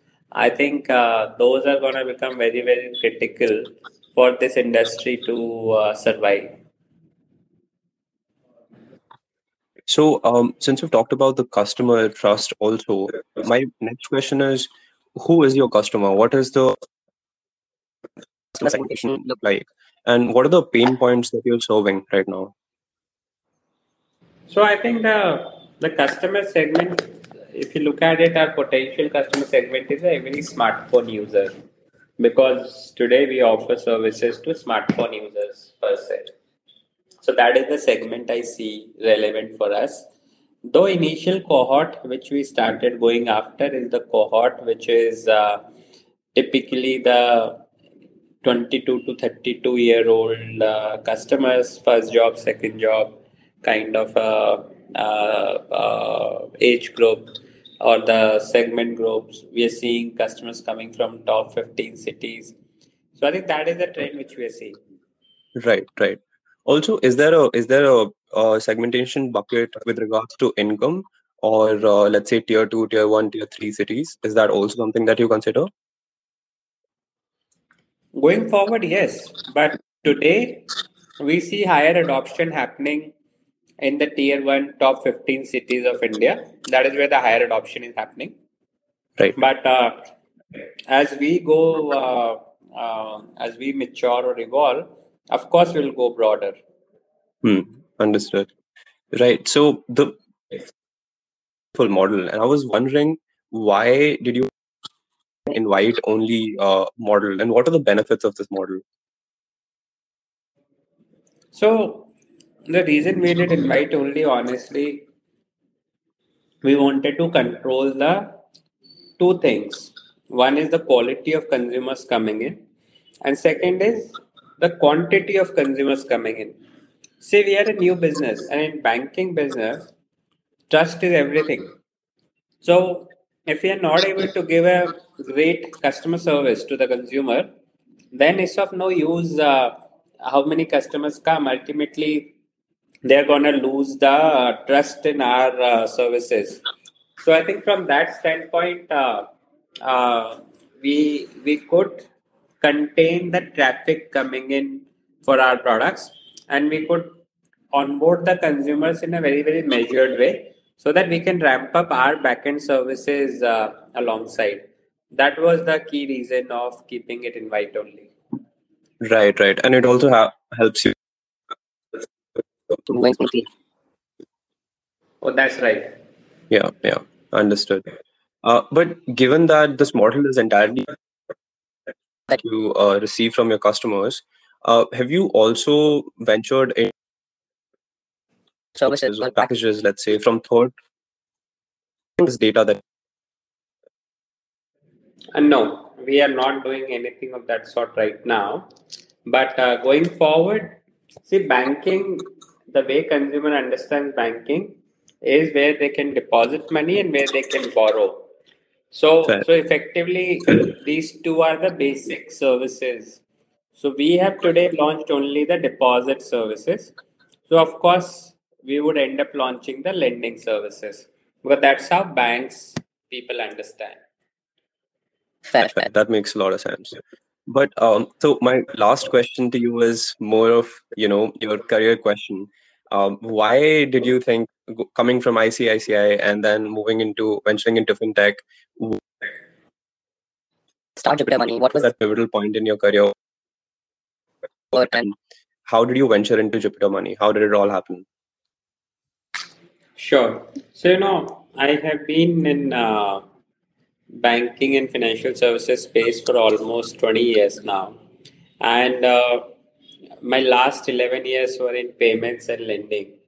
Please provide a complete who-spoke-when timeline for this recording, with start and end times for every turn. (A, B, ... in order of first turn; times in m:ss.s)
0:00.4-0:06.5 A
0:09.9-0:16.8 B
0:18.6-0:22.5 B
0:24.5-0:27.0 A
0:27.5-0:31.5 A
0:32.2-0:36.3 A
0:37.2-0:40.1 A
0:40.7-0:45.6 A
0:46.3-0:47.6 A
0:48.4-1:02.6 A
1:03.2-1:04.8 A
1:05.6-1:15.7 B
1:18.2-1:20.7 A
1:21.2-1:23.1 A
1:23.8-1:28.3 A
1:29.4-1:30.0 A
1:30.9-1:36.6 A
1:37.4-1:38.5 B
1:39.1-1:40.6 B
1:41.8-1:44.5 B
1:45.5-1:48.8 B
1:51.5-1:52.1 A
1:52.7-1:55.1 A
1:56.6-1:58.3 A
1:59.2-2:02.6 A
2:03.2-2:06.6 A
2:07.2-2:09.9 A
2:10.7-2:11.7 A
2:12.6-2:17.5 A
2:18.1-2:22.3 A
2:23.0-2:26.6 A
2:27.2-2:29.3 A
2:29.8-2:32.1 A
2:32.6-2:37.2 A
2:37.7-2:48.1 A
2:49.0-2:51.0 B
2:52.9-2:53.5 C
2:55.2-2:55.9 A
2:56.5-2:57.9 B
2:58.4-3:00.9 B
3:02.3-3:06.9 B
3:08.8-3:09.1 C
3:08.9-3:10.7 B
3:12.2-3:12.8 B
3:15.3-3:18.7 A
3:19.3-3:28.3 A
3:28.9-3:33.2 A
3:33.8-3:36.9 A
3:37.5-3:44.0 A
3:45.5-3:59.0 B
4:01.0-4:01.9 C
4:01.8-4:03.1 B
4:04.7-4:05.0 C
4:04.9-4:05.2 B
4:05.7-4:08.0 B
4:10.0-4:13.2 A
4:14.1-4:18.0 A
4:18.6-4:19.5 A
4:20.2-4:23.1 A